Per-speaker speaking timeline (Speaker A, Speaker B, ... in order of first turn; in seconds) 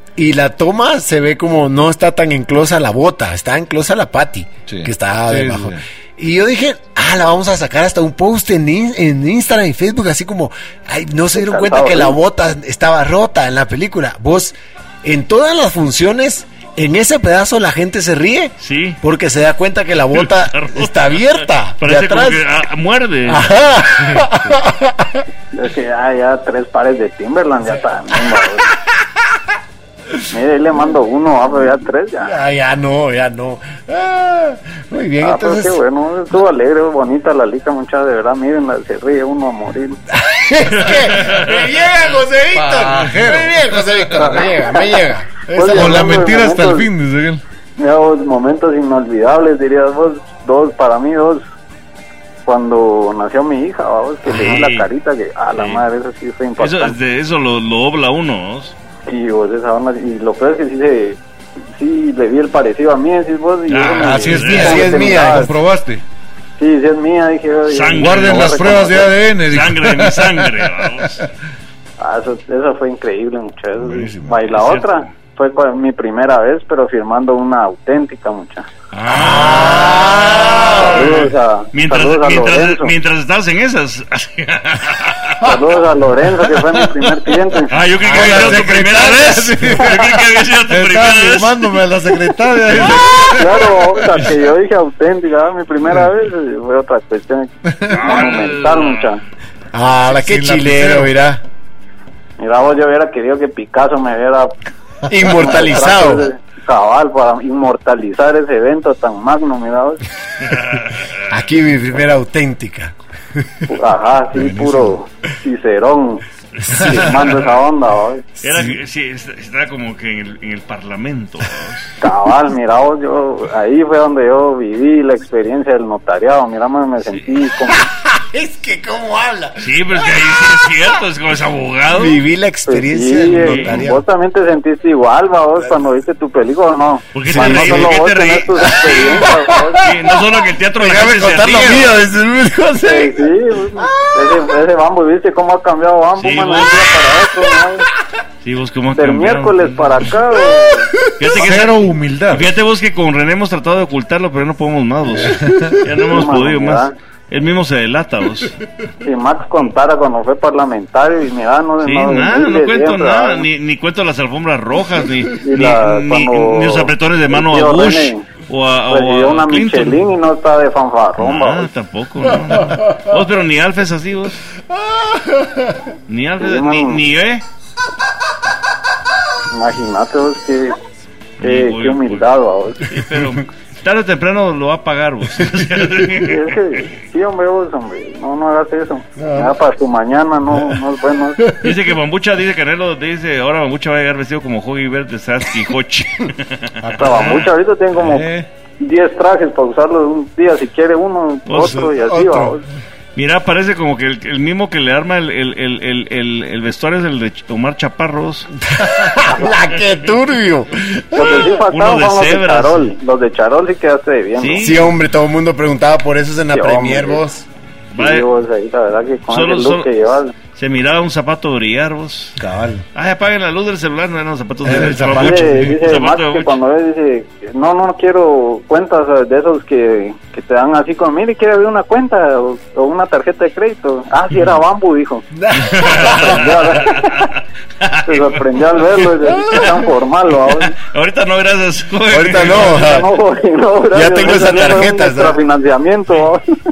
Speaker A: 0.2-22.5, 23.3-25.2, 28.1-28.5, 32.2-35.8, 40.1-46.3, 64.4-65.5, 79.1-81.3, 88.0-88.7, 99.7-101.4, 105.1-106.3, 111.3-113.7, 116.6-117.2, 118.4-118.7, 127.7-130.9, 131.9-134.1, 137.2-137.9, 139.3-140.0, 140.8-144.5, 150.5-151.3, 172.6-172.9, 174.8-175.9, 189.2-189.6, 191.4-191.8, 208.7-211.5, 214.6-217.4, 235.3-236.6, 242.1-243.1, 243.9-245.4
Speaker B: 4.7-5.8, 42.5-44.5, 45.7-47.4, 63.9-66.0, 68.0-71.0, 73.8-74.5, 86.5-87.2, 88.0-94.2, 97.7-98.2, 100.0-101.1, 114.3-115.0, 116.8-117.3, 151.3-152.5, 155.1-155.8, 196.8-198.5, 201.6-202.6, 222.4-222.8, 224.6-225.8
Speaker C: 11.3-12.2, 25.5-28.7, 30.3-32.4, 35.2-40.0, 45.5-46.9, 47.8-51.4, 52.5-57.0, 59.1-61.2, 61.8-65.5, 66.6-69.1, 72.0-78.7, 80.8-82.9, 85.4-87.7, 93.2-99.2, 102.4-104.5, 105.2-110.0, 113.7-116.2, 116.8-118.2, 122.0-127.9, 132.7-139.9, 142.8-147.9, 148.9-150.9, 156.1-156.9, 159.0-163.5, 165.4-168.3, 168.9-171.7, 176.4-177.0, 179.5-180.8, 181.4-182.9, 186.2-191.4, 196.9-198.3, 198.8-202.6, 211.1-214.8, 216.5-217.2, 218.0-220.3, 225.2-235.3, 235.9-237.3, 238.1-240.8, 242.6-246.4
Speaker D: 18.6-19.0, 20.1-23.5, 40.9-41.4, 54.3-54.9, 55.5-55.8, 56.6-58.7, 63.7-64.9, 67.7-68.6, 69.5-71.2, 74.5-75.0, 78.9-85.4, 87.7-91.7, 97.9-99.1, 110.4-111.3, 118.4-121.9, 127.1-127.3, 129.6-132.2, 133.4-133.8, 137.1-139.3, 139.8-141.9, 146.2-147.0, 148.4-150.1, 151.2-158.6, 161.8-170.1, 171.2-174.4, 176.1-177.4, 181.4-182.3, 182.8-186.6, 191.6-197.5, 201.5-201.9, 203.2-208.5, 211.2-212.9, 214.4-214.9, 217.9-218.3, 219.3-219.9, 220.6-222.4, 222.9-226.6, 235.6-239.8, 240.5-243.1